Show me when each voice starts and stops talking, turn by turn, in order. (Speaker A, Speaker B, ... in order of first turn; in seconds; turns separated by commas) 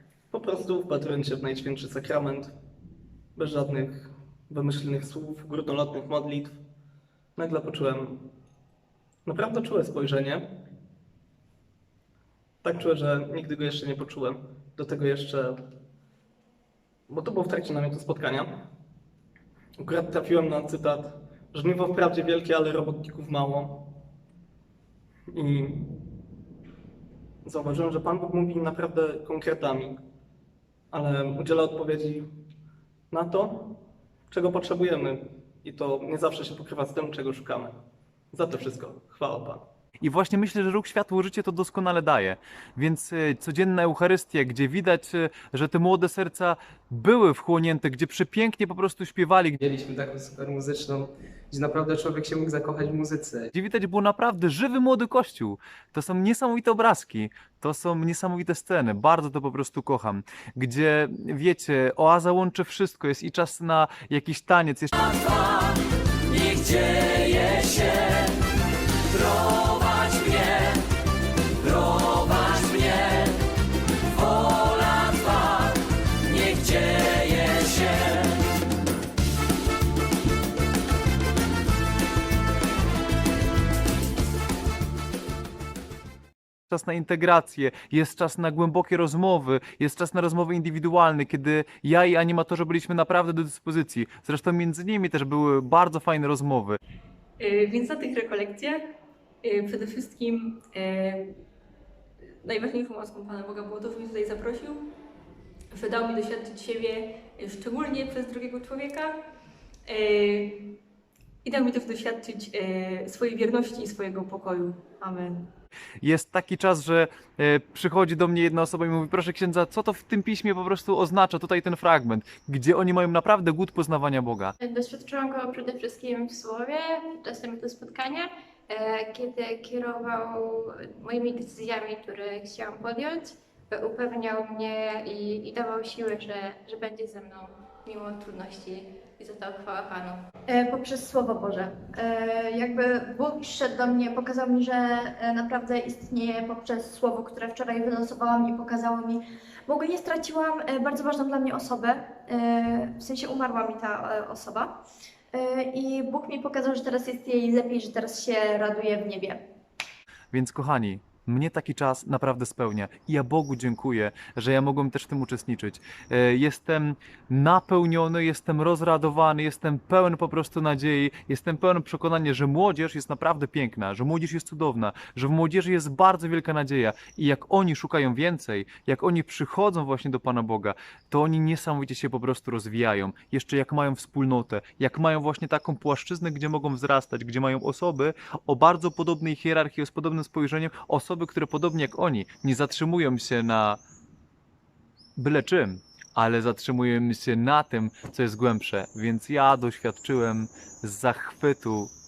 Speaker A: 0.3-2.5, Speaker A: 3.4-6.6, Speaker A: 7.4-8.2, Speaker A: 9.2-10.4, Speaker A: 12.6-15.6, Speaker A: 17.1-18.6, Speaker A: 19.8-23.9, Speaker A: 25.3-25.9, Speaker A: 27.4-30.0, Speaker A: 30.9-32.3, Speaker A: 33.1-33.8, Speaker A: 34.3-37.7, Speaker A: 38.3-39.6, Speaker B: 40.0-49.6, Speaker C: 49.6-53.5, Speaker B: 53.5-65.3, Speaker B: 86.7-96.8, Speaker D: 97.4-98.8, Speaker D: 99.4-101.3, Speaker D: 102.4-104.8, Speaker D: 105.7-109.2, Speaker D: 109.8-110.6, Speaker D: 111.4-115.5, Speaker B: 116.0-124.5, Speaker E: 124.6-140.2, Speaker F: 140.5-154.7, Speaker F: 155.3-159.4, Speaker B: 160.3-193.8, Speaker B: 195.2-201.9